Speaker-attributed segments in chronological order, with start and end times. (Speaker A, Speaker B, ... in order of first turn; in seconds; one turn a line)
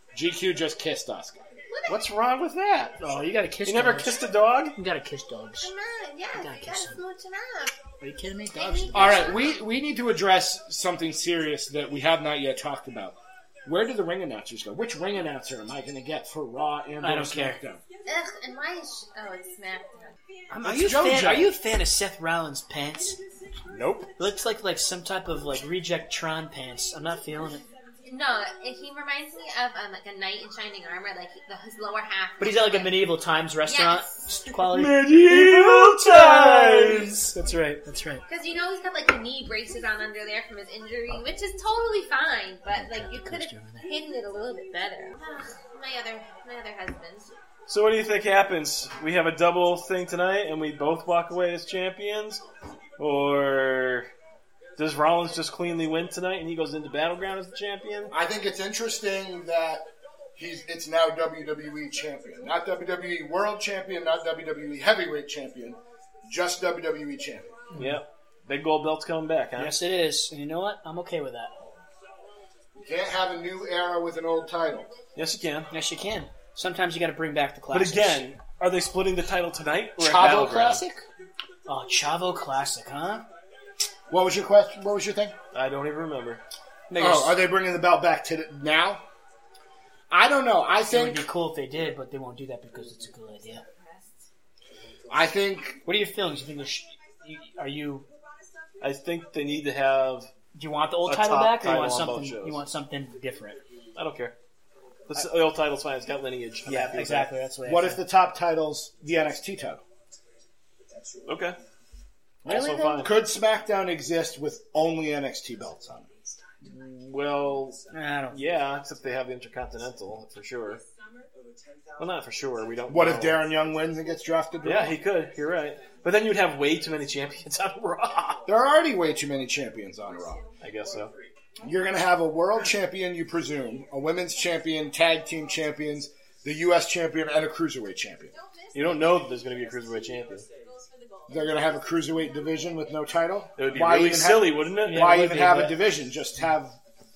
Speaker A: 0.1-1.4
Speaker B: 1.7-2.0
Speaker C: 1.9-3.0
Speaker D: 3.0-4.2
Speaker C: 3.6-4.7
Speaker D: 4.8-5.7
Speaker B: 5.6-7.8
Speaker D: 6.3-7.0
Speaker D: 8.0-9.4
Speaker B: 8.5-9.6
Speaker A: 8.9-17.8
Speaker D: 17.0-17.6
Speaker B: 18.0-20.1
Speaker D: 20.5-23.2
Speaker A: 20.6-21.5
Speaker C: 23.7-24.1
Speaker D: 24.2-27.6
Speaker B: 28.0-33.0
Speaker D: 32.4-38.2
Speaker B: 33.6-34.1
Speaker C: 34.7-37.1
Speaker B: 38.3-47.3
Speaker D: 42.7-43.9
Speaker C: 47.7-52.4
Speaker C: 53.0-54.1
Speaker C: 54.8-58.1
Speaker A: 58.1-59.8
Speaker A: 60.4-67.5
Speaker D: 67.7-68.0
Speaker C: 67.7-69.7
Speaker D: 69.6-71.5
Speaker A: 72.8-74.9
Speaker C: 75.2-75.7
Speaker D: 75.7-78.2
Speaker C: 77.7-80.8
Speaker A: 80.0-81.0
Speaker D: 81.7-83.2
Speaker A: 84.1-85.3
Speaker C: 85.5-86.4
Speaker D: 86.9-87.3
Speaker A: 87.0-89.0
Speaker A: 90.1-91.2
Speaker D: 90.9-93.6
Speaker A: 95.1-95.8
Speaker D: 95.8-98.0
Speaker C: 98.8-100.3
Speaker D: 100.5-103.6
Speaker C: 101.0-102.6
Speaker C: 104.0-104.3
Speaker C: 105.1-107.3
Speaker D: 106.7-108.0
Speaker A: 107.7-109.8
Speaker C: 111.2-111.6
Speaker C: 112.4-113.1
Speaker D: 112.5-113.0
Speaker A: 112.5-116.1
Speaker C: 116.6-117.8
Speaker D: 117.9-118.4
Speaker C: 118.3-120.8
Speaker C: 122.0-123.4
Speaker A: 122.9-125.0
Speaker C: 124.6-128.4
Speaker A: 128.4-130.4
Speaker C: 130.6-131.1
Speaker A: 131.6-138.3
Speaker C: 138.7-140.4
Speaker A: 141.3-146.7
Speaker C: 143.6-145.2
Speaker D: 144.8-145.8